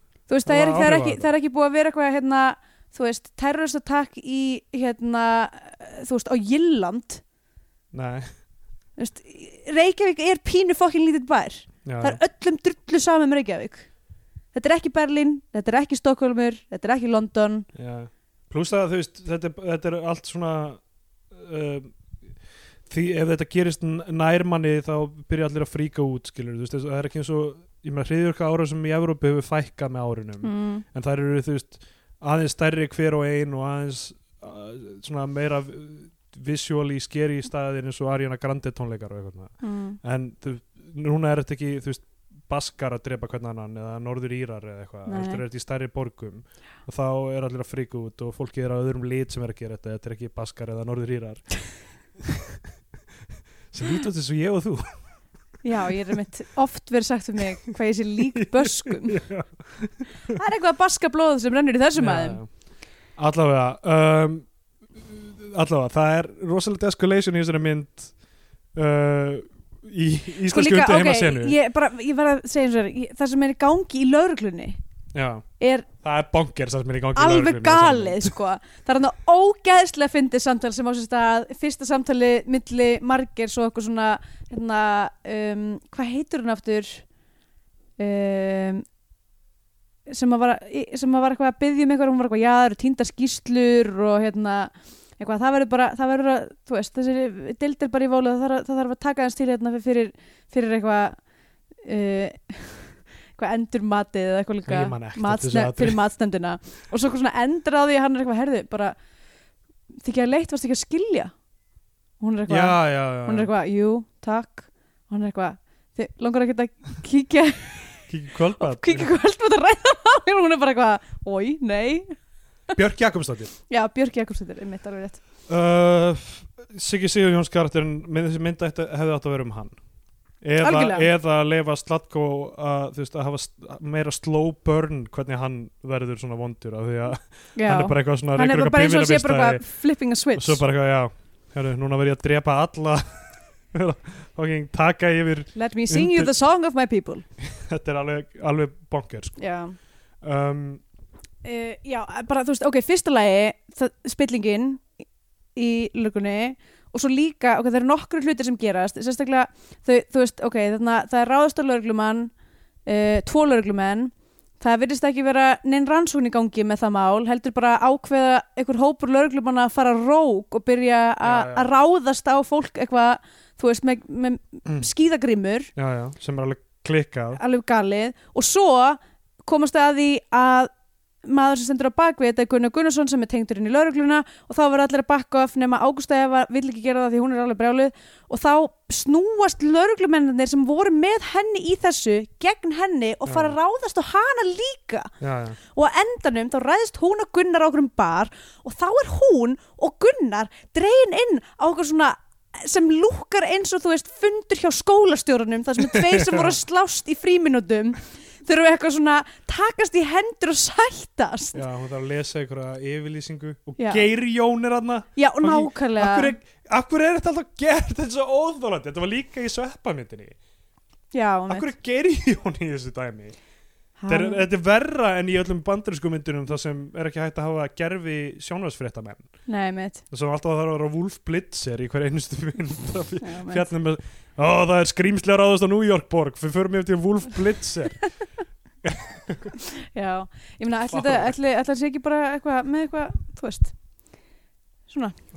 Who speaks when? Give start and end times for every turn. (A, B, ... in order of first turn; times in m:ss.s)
0:00.3-0:07.2 A
0:00.4-0:01.3 B
0:07.9-0:08.3 B
0:09.0-0:13.9 A
0:11.8-0:12.2 B
0:14.5-0:17.7 A
0:17.8-0:22.0 B
0:22.9-0:51.5 B
0:30.4-0:30.8 A
0:39.6-0:40.0 A
0:45.1-0:45.4 A
0:52.2-0:52.6 B
0:53.7-0:54.9 B
0:55.6-0:59.2 A
0:58.4-1:00.4 B
1:00.3-1:02.4 A
1:02.0-1:02.5 B
1:03.2-1:08.1 B
1:08.8-1:11.6 B
1:10.5-1:14.8 A
1:15.1-1:15.4 B
1:15.6-1:15.9 A
1:16.0-1:18.3 B
1:17.2-1:27.0 A
1:28.0-1:28.8 A
1:30.1-1:41.2 A
1:41.8-1:49.0 A
1:44.7-1:46.0 B
1:50.0-1:51.3 A
1:52.2-2:02.1 A
1:52.5-1:53.5 B
1:58.1-1:59.1 B
2:02.7-2:03.5 B
2:03.7-2:05.2 A
2:05.5-2:09.8 B
2:10.4-2:19.6 B
2:10.6-2:11.1 A
2:17.6-2:20.6 A
2:20.4-2:23.0 B
2:23.7-2:26.3 B
2:25.6-2:27.2 A
2:27.4-2:29.4 B
2:29.4-2:29.8 A
2:30.2-2:30.8 B
2:31.4-2:34.9 A
2:35.6-2:42.3 A
2:42.9-2:55.7 A
2:51.2-2:51.7 B
2:55.8-2:57.4 B
2:57.4-3:00.7 A
3:01.2-3:15.1 A
3:13.3-3:13.6 B
3:15.2-3:15.6 B
3:15.7-3:31.6 A
3:25.9-3:26.6 B
3:31.5-3:40.4 B
3:33.8-3:34.0 A
3:35.2-3:36.4 A
3:41.1-3:41.7 A
3:41.5-3:43.4 B
3:44.0-3:44.4 A
3:44.1-3:49.3 B
3:49.5-3:50.0 A
3:50.1-3:58.0 B
3:53.2-3:53.7 A
3:58.8-3:59.5 B
3:59.7-4:03.8 A
4:00.9-4:01.4 B
4:04.9-4:05.2 A